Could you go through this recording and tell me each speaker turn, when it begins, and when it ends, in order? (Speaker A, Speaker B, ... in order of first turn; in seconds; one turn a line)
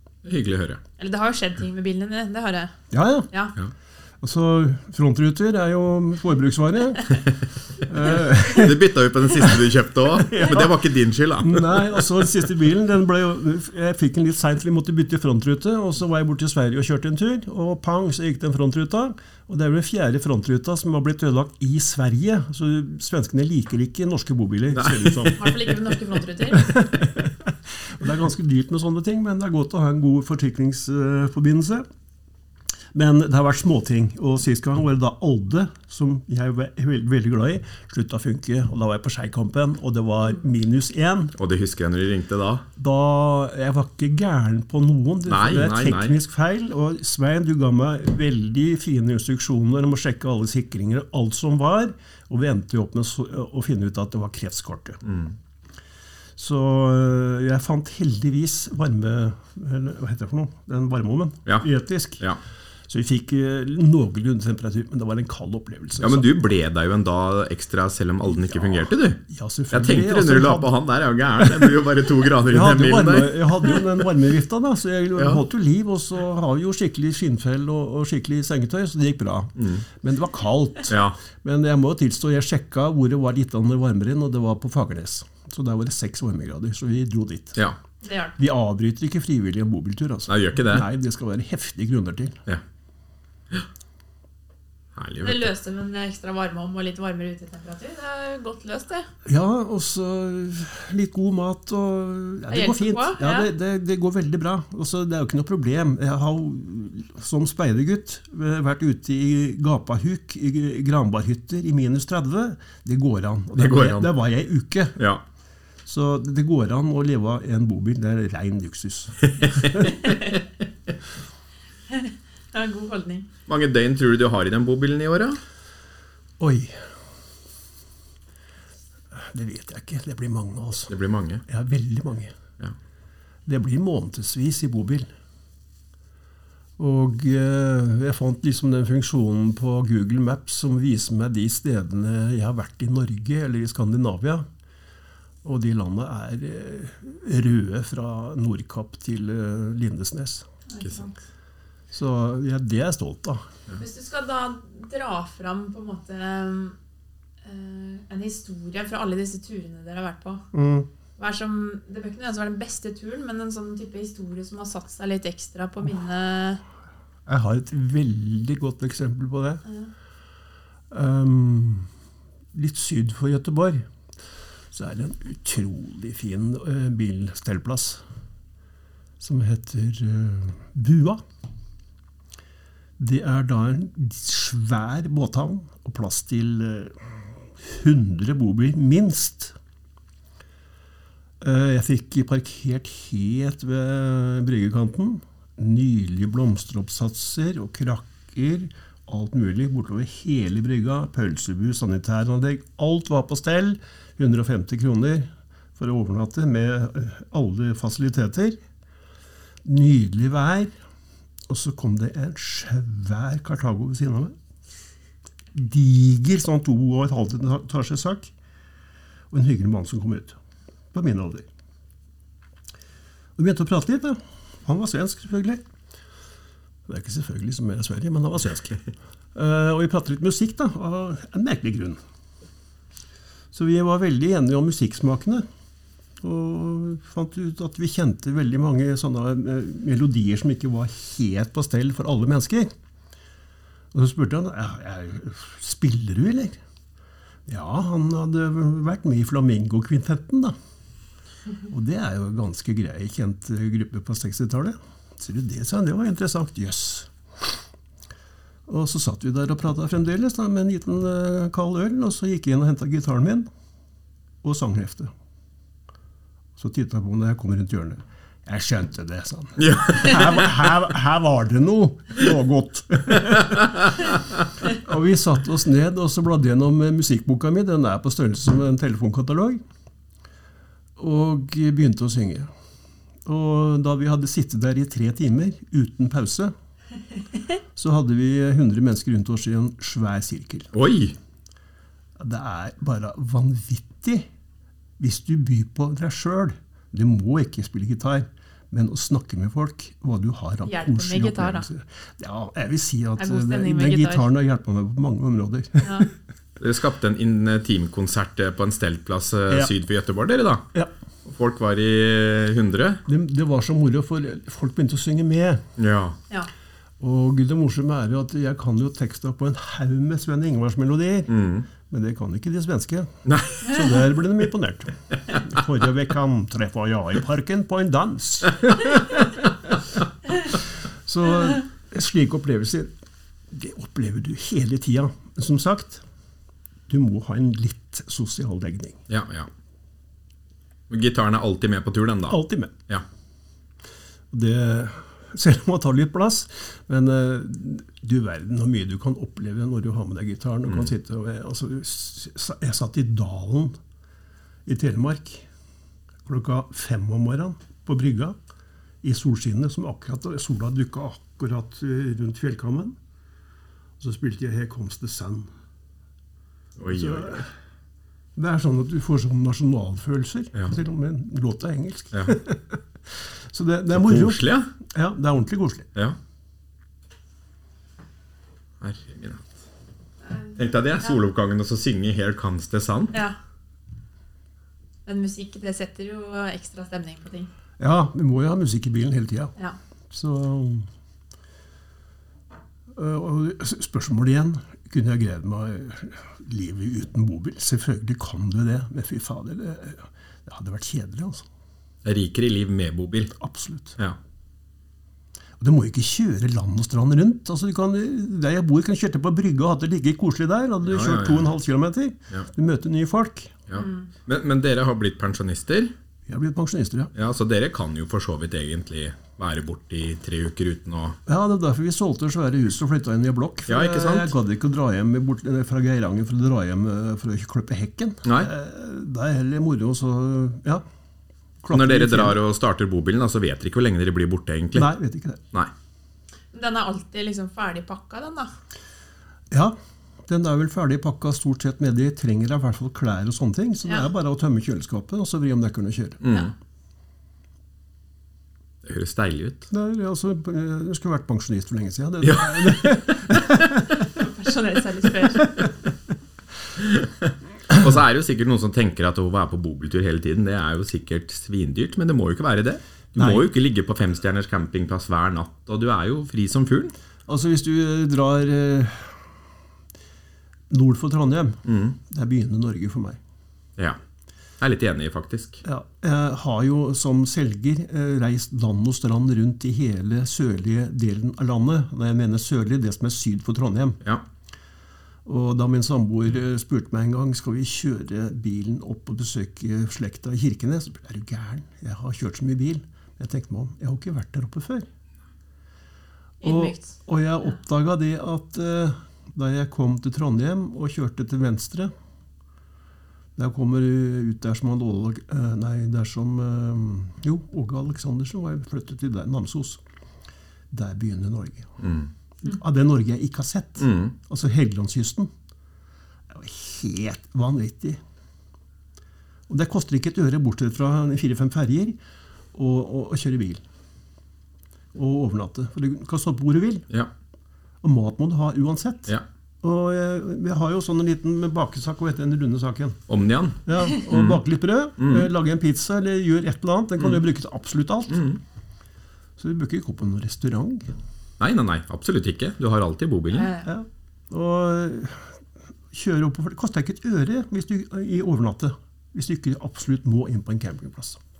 Speaker A: 0.2-0.8
Speaker B: 1.0-2.7
Speaker C: 2.9-3.3
Speaker C: 4.2-7.3
Speaker C: 7.8-10.8
Speaker A: 8.5-12.1
Speaker C: 11.4-25.5
Speaker A: 24.7-25.7
Speaker B: 25.4-26.7
Speaker C: 26.5-31.9
Speaker C: 32.9-41.4
Speaker A: 41.4-42.6
Speaker C: 42.8-55.0
Speaker A: 45.3-46.2
Speaker A: 55.0-55.4
Speaker C: 56.4-62.3
Speaker C: 62.9-66.3
Speaker A: 66.0-69.2
Speaker C: 68.8-70.7
Speaker A: 69.7-73.9
Speaker C: 71.4-71.8
Speaker C: 72.5-87.6
Speaker A: 75.2-75.4
Speaker A: 79.6-79.8
Speaker A: 80.9-81.2
Speaker B: 88.0-88.4
Speaker C: 88.4-92.4
Speaker A: 90.3-90.9
Speaker A: 95.0-95.5
Speaker B: 95.2-99.1
Speaker C: 99.3-115.0
Speaker B: 102.5-103.5
Speaker A: 113.6-114.1
Speaker C: 115.9-120.0
Speaker A: 119.3-119.8
Speaker B: 120.0-120.3
Speaker B: 121.9-123.3
Speaker A: 123.5-125.4
Speaker C: 126.4-126.8
Speaker C: 129.1-130.9
Speaker A: 130.9-131.4
Speaker C: 131.5-132.3
Speaker C: 133.5-135.1
Speaker C: 136.8-144.5
Speaker C: 145.4-150.5
Speaker B: 150.7-151.1
Speaker C: 151.9-153.4
Speaker B: 153.8-156.8
Speaker B: 157.4-160.4
Speaker C: 160.5-160.9
Speaker B: 161.2-166.6
Speaker C: 167.3-169.6
Speaker C: 170.9-171.9
Speaker C: 172.5-173.9
Speaker C: 174.7-178.0
Speaker C: 179.2-181.2
Speaker C: 183.0-189.6
Speaker C: 191.4-208.6
Speaker C: 209.6-210.7
Speaker C: 211.5-214.4
Speaker C: 215.5-218.3
Speaker C: 219.3-220.4
Speaker C: 220.9-221.5
Speaker C: 223.4-225.6
Speaker C: 226.9-232.0
Speaker C: 233.5-235.5
Speaker C: 236.2-242.7
Speaker C: 243.9-246.6
Speaker C: 247.5-250.6
Speaker C: 251.7-257.6
Speaker C: 258.7-263.5
Speaker C: 264.4-265.1
Speaker C: 266.6-273.7
Speaker A: 269.6-270.5
Speaker A: 273.4-274.2
Speaker C: 274.7-279.6
Speaker C: 281.0-282.5
Speaker C: 283.2-286.5
Speaker C: 287.7-290.7
Speaker A: 290.7-291.2
Speaker C: 292.2-294.3
Speaker C: 295.0-306.1
Speaker B: 300.6-301.7
Speaker B: 303.2-304.3
Speaker B: 305.8-306.1
Speaker A: 306.6-310.6
Speaker A: 311.2-313.0
Speaker C: 313.1-315.6
Speaker A: 315.8-316.2
Speaker C: 317.0-329.8
Speaker A: 321.3-321.6
Speaker A: 323.3-324.0
Speaker C: 330.5-332.9
Speaker C: 333.5-336.0
Speaker C: 336.9-339.0
Speaker A: 339.1-339.5
Speaker A: 340.9-343.1
Speaker C: 342.3-342.7
Speaker C: 344.3-353.8
Speaker C: 354.7-355.5
Speaker C: 356.2-358.4
Speaker C: 359.0-363.0
Speaker C: 364.0-365.5
Speaker A: 366.8-367.4
Speaker C: 366.9-367.5
Speaker C: 368.4-375.9
Speaker A: 373.9-374.7
Speaker A: 378.8-379.5
Speaker A: 380.6-383.1
Speaker B: 385.1-387.5
Speaker C: 387.8-389.5
Speaker C: 390.1-390.9
Speaker C: 392.9-401.5
Speaker A: 402.1-403.4
Speaker C: 403.4-404.0
Speaker C: 405.6-413.6
Speaker A: 410.9-411.5
Speaker A: 413.7-415.9
Speaker B: 413.8-414.1
Speaker C: 416.3-417.1
Speaker A: 417.1-421.2
Speaker C: 421.3-430.8
Speaker A: 423.7-424.3
Speaker C: 431.6-432.4
Speaker A: 431.7-434.9
Speaker C: 434.8-435.4
Speaker B: 436.5-438.5
Speaker C: 439.5-439.8
Speaker C: 440.3-446.2
Speaker A: 446.2-446.5
Speaker A: 448.8-449.7
Speaker C: 449.7-454.1
Speaker A: 452.2-453.2
Speaker B: 454.0-455.6
Speaker A: 456.8-466.9
Speaker C: 463.2-463.5
Speaker C: 467.3-469.3
Speaker C: 470.7-473.2
Speaker A: 471.7-472.0
Speaker A: 474.6-475.6
Speaker C: 475.6-484.0
Speaker C: 485.3-494.9
Speaker B: 496.4-496.9
Speaker C: 496.4-501.9
Speaker C: 503.4-509.8
Speaker C: 510.7-511.8
Speaker A: 511.8-512.1
Speaker C: 512.4-515.3
Speaker A: 513.8-514.1
Speaker C: 516.3-518.0
Speaker C: 519.5-522.0
Speaker C: 522.5-523.6
Speaker C: 524.9-526.9
Speaker C: 527.8-533.0
Speaker A: 533.1-534.4
Speaker C: 533.7-538.3
Speaker A: 535.0-535.3
Speaker A: 538.1-538.4
Speaker C: 539.4-540.9
Speaker A: 541.4-543.5
Speaker B: 543.3-543.7
Speaker C: 543.6-545.4
Speaker C: 545.9-551.2